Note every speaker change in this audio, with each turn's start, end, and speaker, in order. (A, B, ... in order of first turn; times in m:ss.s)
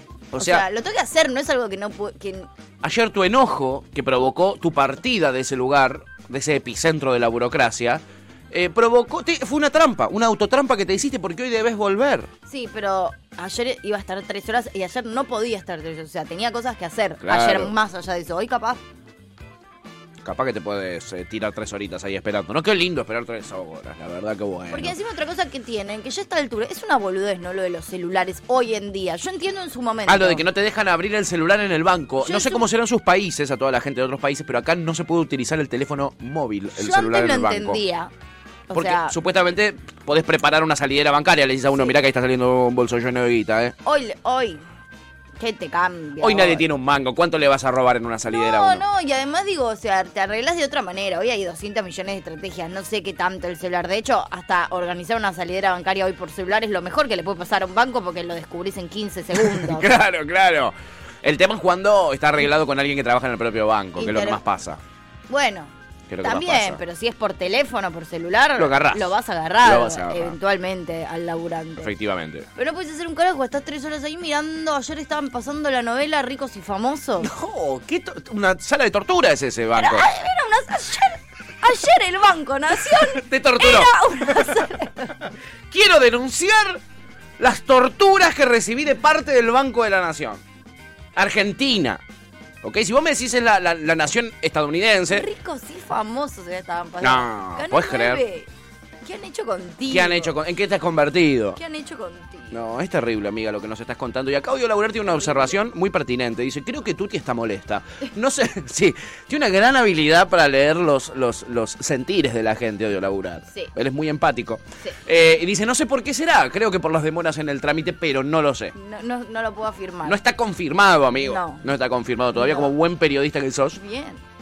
0:00.3-0:00.7 A
0:00.4-0:02.5 B
0:02.8-0:12.3 A
0:12.5-0:18.8 B
0:17.2-0:17.7 A
0:20.2-0:25.0 A
0:24.7-0:30.4 B
0:30.1-0:37.8 A
0:32.2-0:32.6 B
0:36.8-0:38.1 B
0:38.7-0:39.2 B
0:38.7-0:43.8 A
0:43.8-0:44.6 B
0:45.4-0:46.6 B
0:46.2-0:48.8 A
0:48.3-0:59.9 B
0:59.4-1:04.8 A
1:04.0-1:04.4 B
1:05.3-1:05.7 B
1:06.1-1:06.8 A
1:06.2-1:11.9 B
1:08.6-1:10.4 A
1:11.8-1:12.5 A
1:12.6-1:17.3 B
1:17.2-1:20.1 A
1:19.8-1:25.2 B
1:23.1-1:24.6 A
1:25.7-1:26.8 A
1:27.4-1:30.4 A
1:31.2-1:32.0 A
1:32.6-1:35.3 A
1:35.1-1:38.5 B
1:37.0-1:38.2 A
1:39.0-1:40.4 B
1:39.9-1:41.6 A
1:41.6-1:42.6 B
1:42.5-1:58.7 A
1:45.1-1:45.6 B
1:58.7-2:00.2 B
2:00.0-2:03.8 A
2:01.2-2:01.6 B
2:02.3-2:02.7 B
2:03.7-2:04.2 B